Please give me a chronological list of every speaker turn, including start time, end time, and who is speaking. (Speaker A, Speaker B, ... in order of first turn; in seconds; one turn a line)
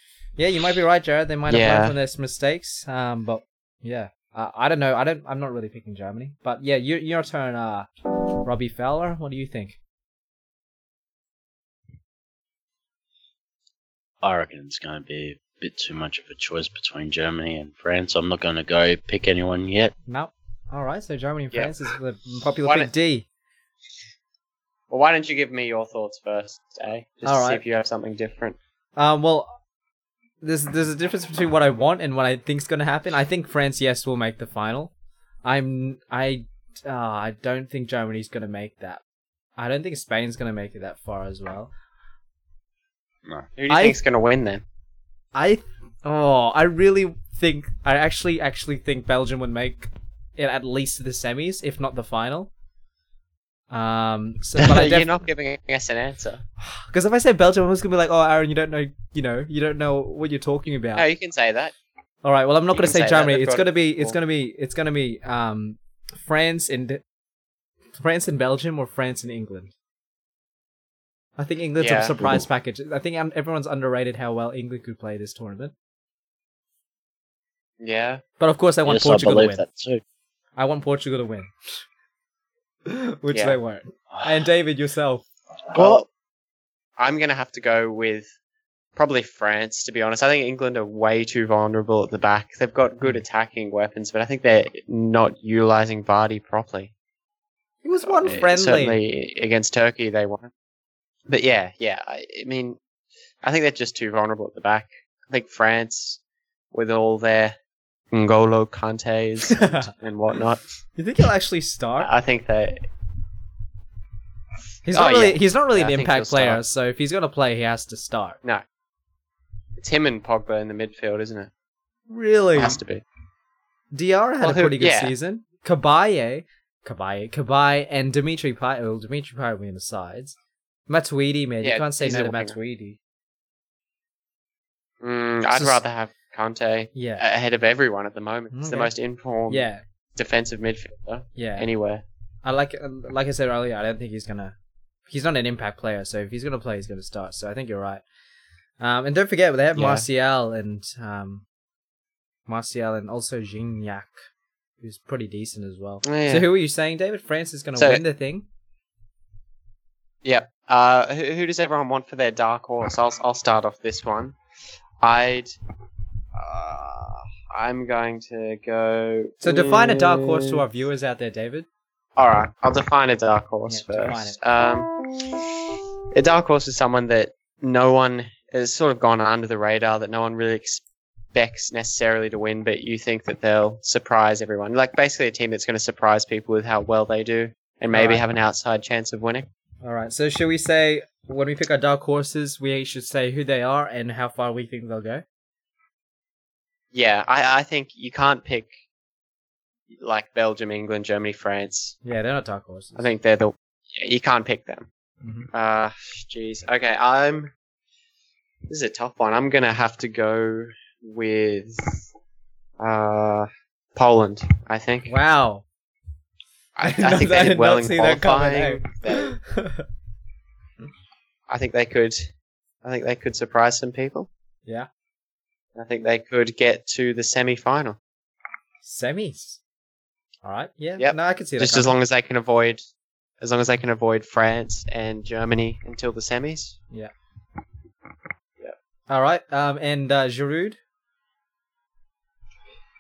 Speaker A: 0.4-7.9
Speaker B: 1.5-1.9
Speaker A: 8.4-9.8
Speaker C: 14.2-19.9
Speaker A: 20.1-23.2
Speaker B: 22.6-22.9
Speaker B: 24.9-28.6
Speaker A: 27.2-27.6
Speaker A: 29.0-29.5
Speaker A: 30.4-34.9
Speaker A: 35.4-39.0
Speaker A: 39.6-41.7
Speaker B: 43.5-44.6
Speaker A: 43.7-44.0
Speaker A: 45.4-52.5
Speaker A: 53.7-55.1
Speaker B: 54.6-56.4
Speaker A: 56.6-61.0
Speaker B: 61.0-61.7
Speaker A: 62.2-67.0
Speaker B: 62.7-64.2
Speaker A: 68.0-69.7
Speaker A: 71.4-75.7
Speaker B: 71.8-72.1
Speaker B: 77.8-78.2
Speaker A: 78.4-79.6
Speaker C: 78.8-80.0
Speaker A: 80.6-81.5
Speaker A: 82.9-85.2
Speaker C: 85.7-86.0
Speaker B: 85.8-86.0
Speaker B: 87.0-88.3
Speaker B: 89.0-96.9
Speaker A: 97.8-99.0
Speaker B: 98.0-100.5
Speaker B: 101.3-102.8
Speaker B: 103.4-106.2
Speaker B: 106.7-107.6
Speaker B: 108.1-110.6
Speaker A: 109.5-109.9
Speaker A: 111.0-112.1
Speaker B: 112.0-112.8
Speaker A: 114.8-118.4
Speaker B: 114.9-116.6
Speaker B: 119.8-121.5
Speaker A: 122.1-122.8
Speaker B: 122.5-123.0
Speaker A: 123.9-130.4
Speaker B: 124.4-125.1
Speaker A: 130.9-133.0
Speaker B: 131.6-132.6
Speaker B: 135.0-142.0
Speaker A: 136.9-137.2
Speaker A: 138.5-138.9
Speaker A: 139.5-139.8
Speaker A: 141.4-141.7
Speaker A: 142.4-144.5
Speaker A: 145.1-148.0
Speaker A: 148.8-151.4
Speaker B: 149.7-150.1
Speaker A: 152.5-154.1
Speaker A: 154.8-158.4
Speaker B: 156.0-156.5
Speaker B: 157.8-158.0
Speaker B: 160.2-164.4
Speaker B: 165.0-165.5
Speaker B: 166.3-170.6
Speaker A: 169.4-171.7
Speaker B: 172.2-180.8
Speaker A: 173.7-174.4
Speaker B: 181.3-189.5
Speaker A: 187.9-188.2
Speaker A: 189.8-195.2
Speaker B: 196.9-198.7
Speaker B: 199.9-202.0
Speaker A: 202.0-203.0
Speaker B: 202.9-204.9
Speaker A: 205.2-205.5
Speaker B: 205.5-207.5
Speaker B: 208.7-212.1
Speaker B: 212.8-215.1
Speaker A: 215.1-215.6
Speaker B: 216.8-219.4
Speaker A: 216.8-219.9
Speaker B: 221.5-222.3
Speaker B: 222.8-224.3
Speaker B: 225.7-228.0
Speaker A: 228.8-229.6
Speaker A: 230.4-231.9
Speaker B: 231.0-232.8
Speaker B: 233.4-236.8
Speaker A: 239.1-240.8